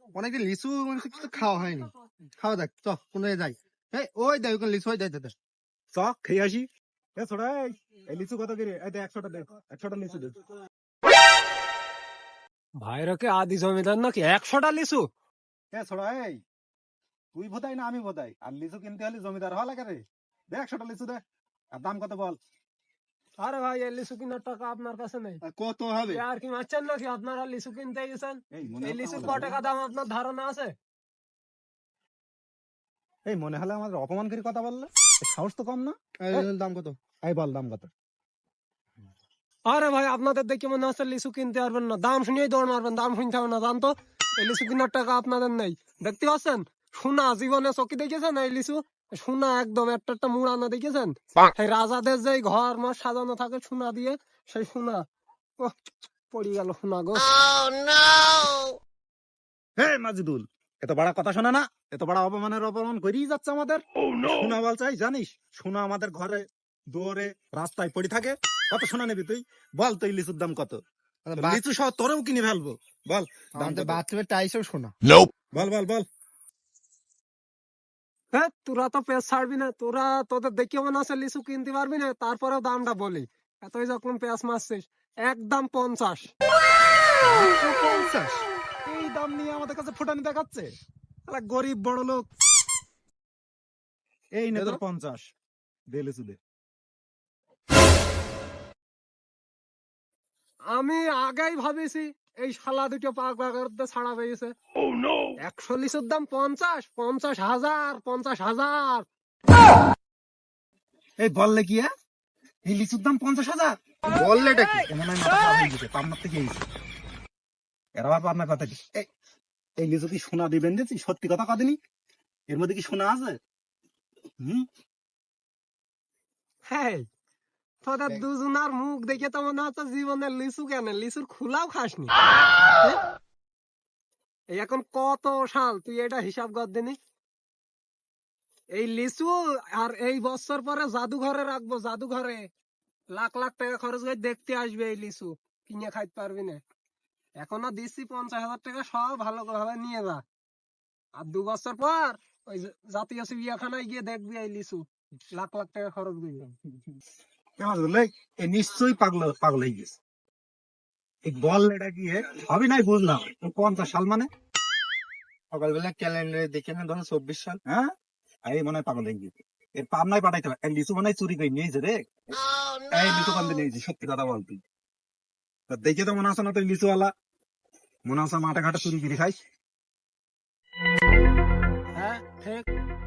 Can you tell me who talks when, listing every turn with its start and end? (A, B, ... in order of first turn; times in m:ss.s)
0:00.1-0:05.3 A
0:01.3-0:01.8 B
0:05.9-0:10.4 C
0:12.8-0:15.0 B
0:15.7-0:16.4 C
0:17.3-0:21.2 C
0:21.7-0:22.4 C
0:23.4-0:25.4 B
0:25.5-0:26.2 A
0:26.1-0:30.7 B
0:28.5-0:29.5 C
0:33.3-0:36.5 C
0:36.2-0:37.0 A
0:37.2-0:37.9 C
0:39.7-0:55.0 B
0:56.3-0:57.3 B
0:59.8-1:10.8 C
1:11.2-1:11.6 A
1:11.4-1:14.0 C
1:13.5-1:14.9 A
1:15.5-1:16.0 C
1:18.3-1:26.3 B
1:27.4-1:28.4 A
1:28.8-1:30.7 C
1:31.3-1:32.2 C
1:34.4-1:35.2 C
1:35.9-1:36.4 C
1:40.7-1:44.5 B
1:45.4-1:49.0 B
1:51.2-1:51.9 C
1:52.6-1:53.8 C
1:54.1-1:54.9 A
1:54.9-1:56.6 C
1:58.0-1:59.1 C
1:59.8-2:01.8 C
2:02.5-2:03.4 C
2:04.4-2:04.6 C
2:06.7-2:07.0 B
2:07.8-2:12.1 B
2:14.5-2:17.0 B
2:18.7-2:22.4 B
2:23.1-2:26.6 B
2:27.4-2:30.2 B
2:31.2-2:36.4 B
2:37.6-2:40.0 C
2:41.2-2:44.3 C
2:45.5-2:47.6 A
2:48.5-2:52.4 C
2:52.9-2:54.6 C
2:55.7-2:57.1 C
2:58.1-2:59.4 C
3:02.0-3:02.6 B